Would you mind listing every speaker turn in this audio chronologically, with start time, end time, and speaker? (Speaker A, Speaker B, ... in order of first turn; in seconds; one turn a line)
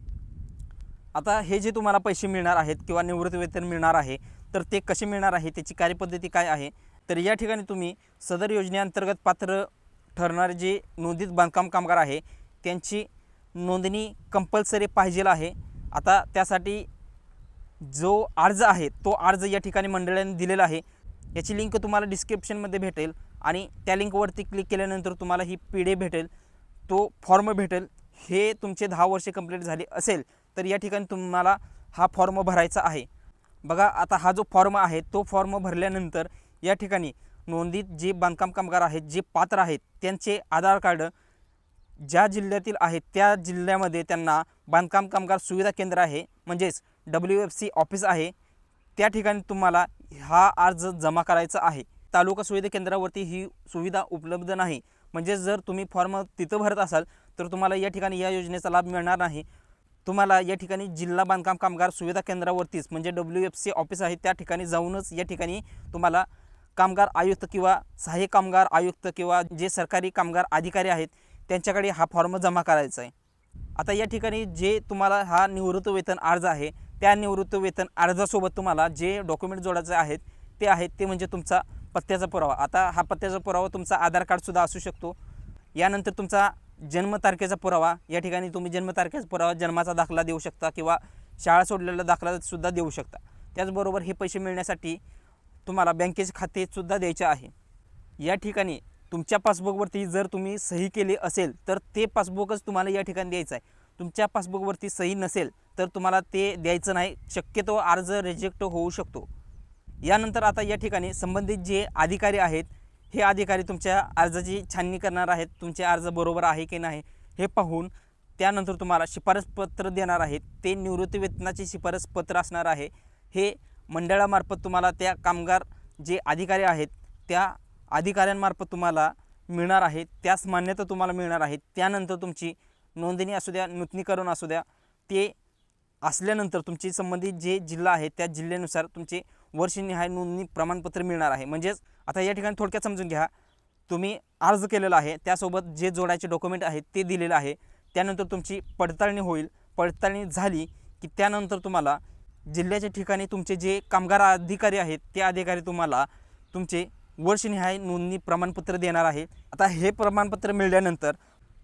Speaker A: 1.1-16.9
Speaker A: 17.8-20.8
Speaker A: 21.3-26.3
Speaker A: 26.9-33.1
Speaker A: 33.6-41.1
Speaker A: 42.0-48.3
Speaker A: 49.0-59.5
Speaker A: 60.0-73.1
Speaker A: 73.8-85.2
Speaker A: 85.8-95.0
Speaker A: 95.7-97.5
Speaker A: 98.2-109.3
Speaker A: 110.0-135.3
Speaker A: 136.0-143.3
Speaker A: 143.9-161.2